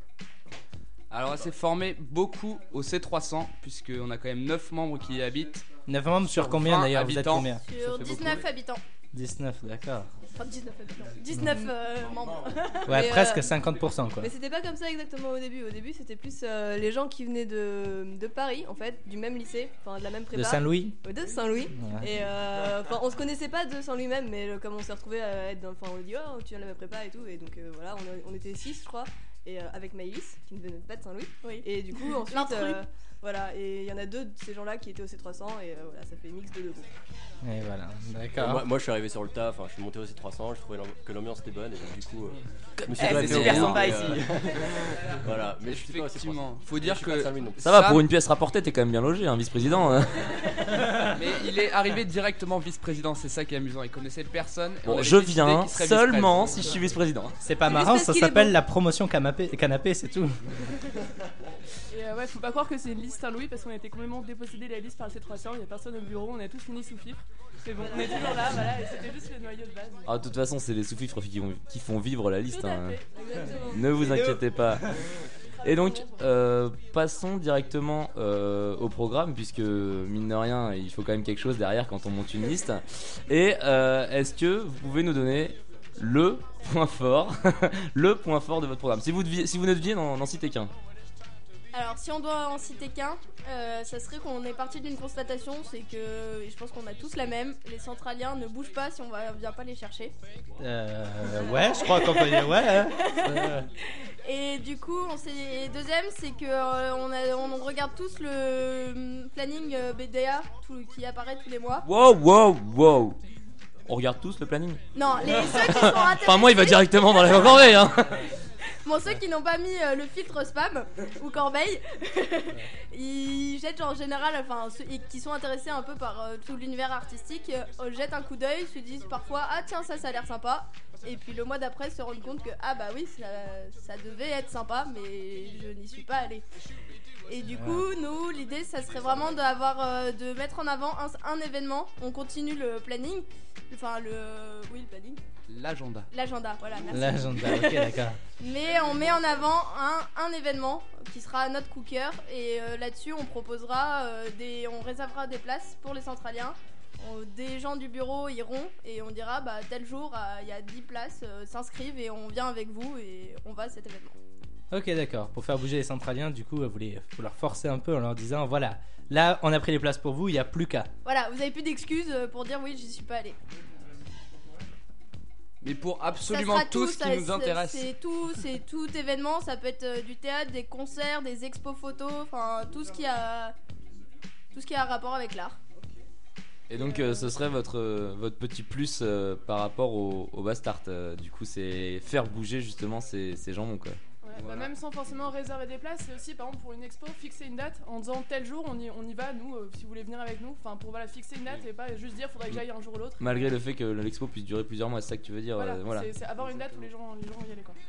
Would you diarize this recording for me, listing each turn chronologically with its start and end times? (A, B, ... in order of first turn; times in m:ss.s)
0:01.1-0:05.7 A
0:05.9-0:07.6 B
0:06.2-0:08.4 A
0:07.6-0:08.8 C
0:09.1-0:10.1 B
0:10.4-0:12.9 C
0:11.4-0:12.1 D
0:12.7-0:13.6 D
0:12.9-0:14.3 B
0:14.2-0:36.9 D
0:20.3-0:21.0 B
0:21.7-0:22.1 B
0:31.4-0:32.8 C
0:37.4-0:38.6 B
0:38.4-0:47.6 E
0:42.8-0:43.9 F
0:43.0-0:44.3 D
0:43.2-0:43.8 A
0:45.0-0:48.0 A
0:47.6-0:50.3 F
0:51.1-0:56.6 A
0:54.8-0:57.4 F
0:57.4-1:00.4 B
0:57.7-0:58.6 D
1:01.9-1:10.1 G
1:10.0-1:13.0 F
1:12.5-1:13.0 G
1:13.1-1:14.2 D
1:13.6-1:14.9 F
1:15.6-1:30.7 F
1:15.7-1:16.2 G
1:31.7-1:40.1 C
1:40.6-1:43.7 B
1:41.8-1:43.5 C
1:44.2-1:51.9 C
1:51.8-1:53.2 F
1:53.9-1:58.2 F
1:54.9-1:57.6 C
1:58.8-2:16.4 C
2:17.3-2:25.2 C
2:17.5-2:17.9 B
2:25.5-2:26.1 A
2:26.1-2:44.2 C
2:26.9-2:28.2 B
2:44.7-2:50.9 B
2:51.0-2:53.4 C
2:55.6-2:57.9 A
2:56.3-3:03.5 C
3:04.5-3:05.6 C
3:06.7-3:14.0 F
3:14.2-3:23.5 G
3:14.4-3:14.7 A
3:23.2-3:26.2 F
3:25.6-3:27.8 G